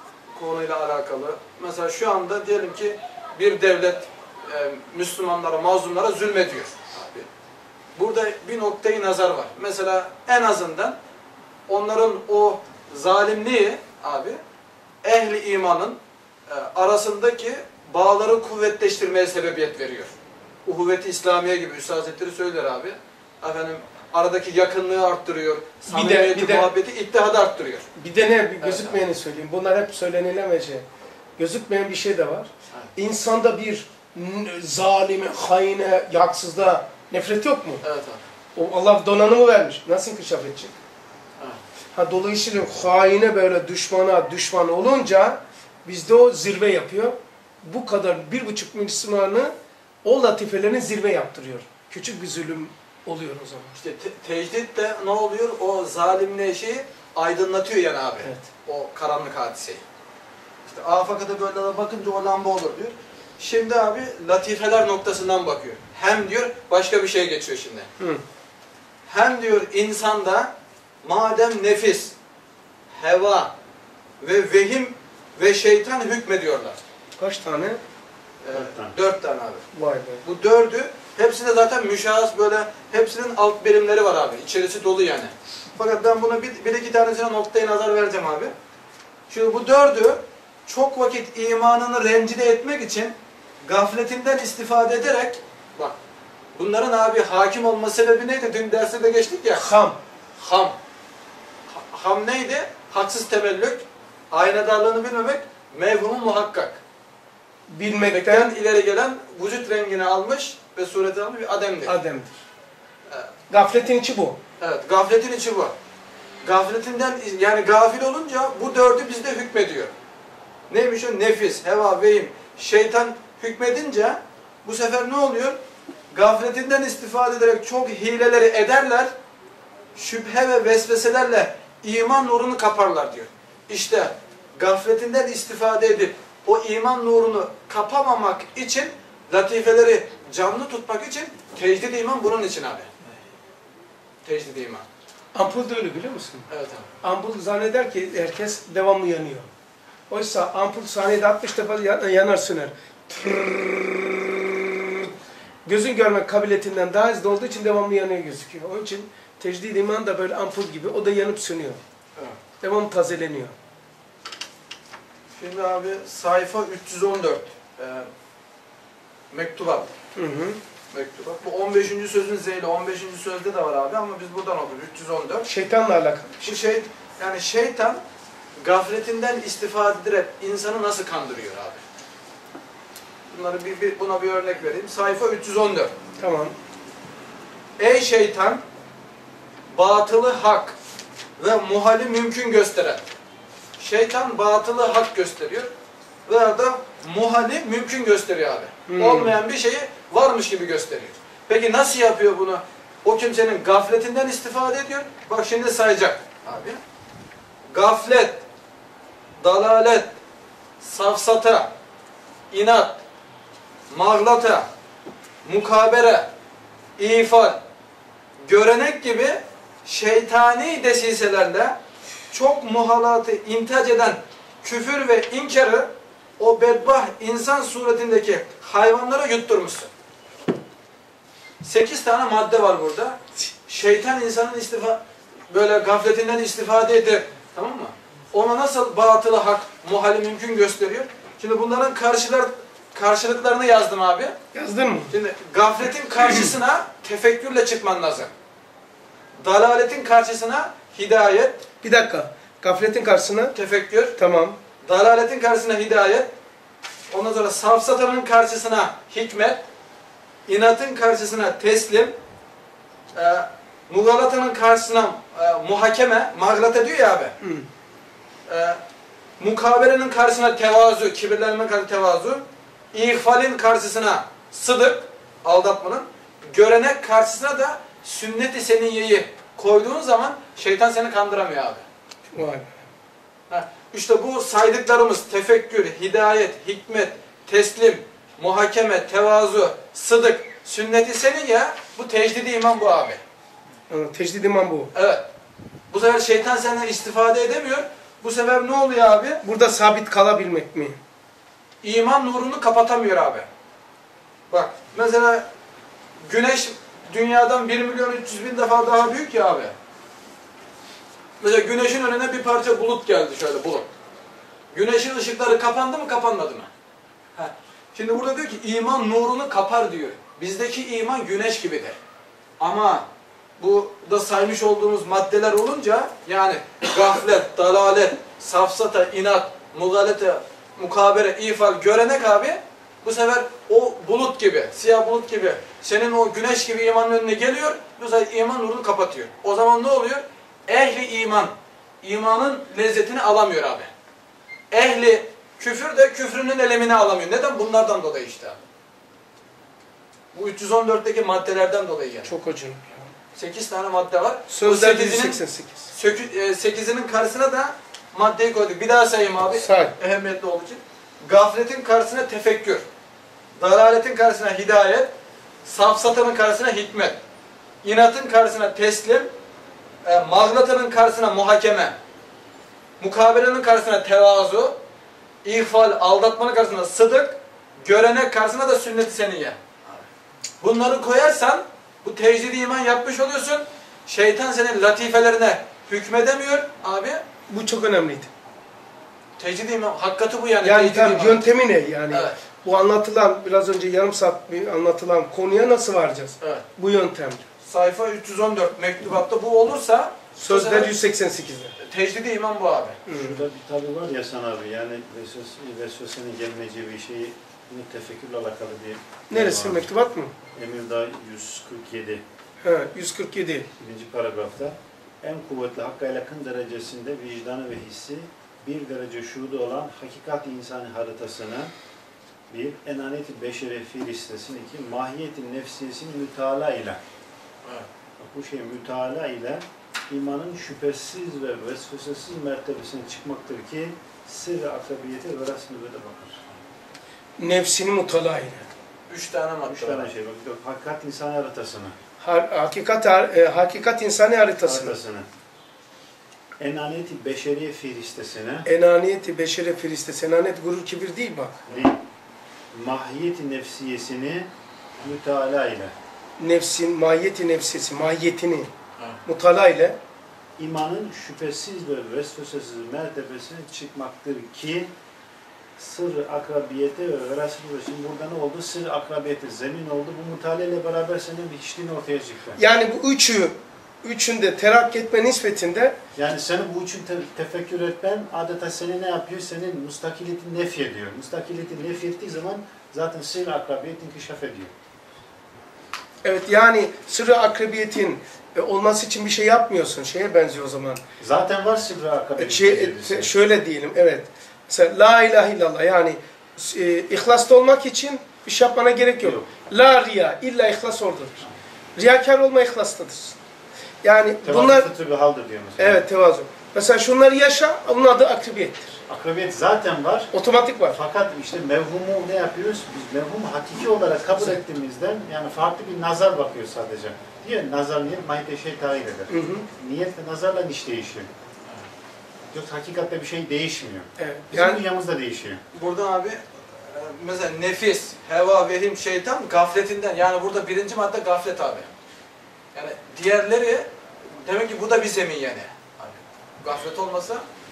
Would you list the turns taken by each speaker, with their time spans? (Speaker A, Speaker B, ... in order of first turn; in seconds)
Speaker A: 0.3-7.3, 8.0-11.0, 11.7-14.4, 15.0-20.1, 20.6-27.9, 28.6-29.0, 37.8-38.2, 53.8-59.8, 60.6-67.9, 69.1-70.5, 71.0-72.2, 72.9-73.5, 74.2-76.8, 78.4-79.7, 80.2-88.5, 89.3-96.0, 96.5-99.7, 100.4-100.8, 101.7-106.8, 108.1-112.0, 114.6-115.7, 116.4-119.9, 120.7-125.6, 126.1-129.1, 129.9-143.1, 144.2-144.9, 146.5-146.9, 165.4-168.1, 169.3-169.9, 170.9-175.5, 176.4-178.0, 178.6-181.8, 183.3-185.9, 187.8-188.6, 189.7-190.8, 191.4-193.1, 193.8-195.7, 196.3-206.8, 207.7-208.4, 209.4-210.2, 210.8-211.7, 212.5-213.0, 213.9-214.7, 215.4-216.3, 217.0-217.6, 218.4-221.8, 222.3-229.9, 231.6-244.4, 245.1-248.3, 249.4-251.7, 253.6-254.2, 254.8-256.3, 257.1-259.6, 260.5-262.2, 263.1-267.4, 268.5-268.8, 269.4-281.8, 283.5-293.2, 294.9-295.2, 295.9-299.4, 301.8-303.5, 304.5-305.5, 306.3-309.7, 311.4-313.9, 314.7-316.7, 317.4-322.0, 322.6-323.1, 323.6-343.9, 344.7-348.6, 350.3-352.4, 353.4-355.4, 355.9-362.9, 363.6-365.1, 365.6-367.2, 367.8-369.3, 370.0-372.0, 373.0-374.8, 375.4-380.1, 380.6-387.2, 389.4-391.4, 392.1-392.4, 397.6-400.9, 401.8-403.0, 439.1-440.1, 525.7-531.9, 532.8-533.9, 534.4-537.5
Speaker B: 25.9-26.7, 28.0-30.9, 31.4-37.8, 38.5-40.8, 41.9-53.7, 77.2-77.8, 79.7-80.2, 99.5-100.0, 107.7-108.5, 111.9-112.4, 113.5-114.4, 145.3-146.5, 147.0-149.5, 150.1-155.1, 155.7-161.8, 162.6-163.6, 170.2-170.6, 175.5-176.6, 186.2-186.6, 198.9-199.3, 244.5-245.1, 251.8-253.6, 254.2-254.6, 267.4-267.7, 282.3-282.9, 293.9-294.9, 299.4-301.0, 352.2-353.1, 354.5-355.9, 359.5-359.9, 387.5-388.3, 390.6-397.5, 400.4-401.8, 403.1-403.4, 409.3-410.3, 412.6-413.7, 437.4-438.7, 442.2-445.0, 448.7-451.6, 456.4-458.7, 459.3-460.0, 472.6-476.0, 486.2-491.0, 492.4-503.4, 504.0-504.9, 505.8-509.0, 510.3-511.0, 514.4-514.6, 519.3-519.7, 524.2-524.8
Speaker C: 78.5-79.0, 403.1-409.9, 410.5-412.2, 413.8-421.7, 422.5-427.0, 428.2-436.5, 439.7-442.0, 444.6-445.3, 446.6-448.7, 451.7-452.0, 452.7-455.9, 460.6-464.9, 465.8-472.6, 476.1-484.7, 491.2-493.3, 499.2-499.5, 504.4-506.0, 509.1-510.3, 510.9-521.3, 522.5-525.6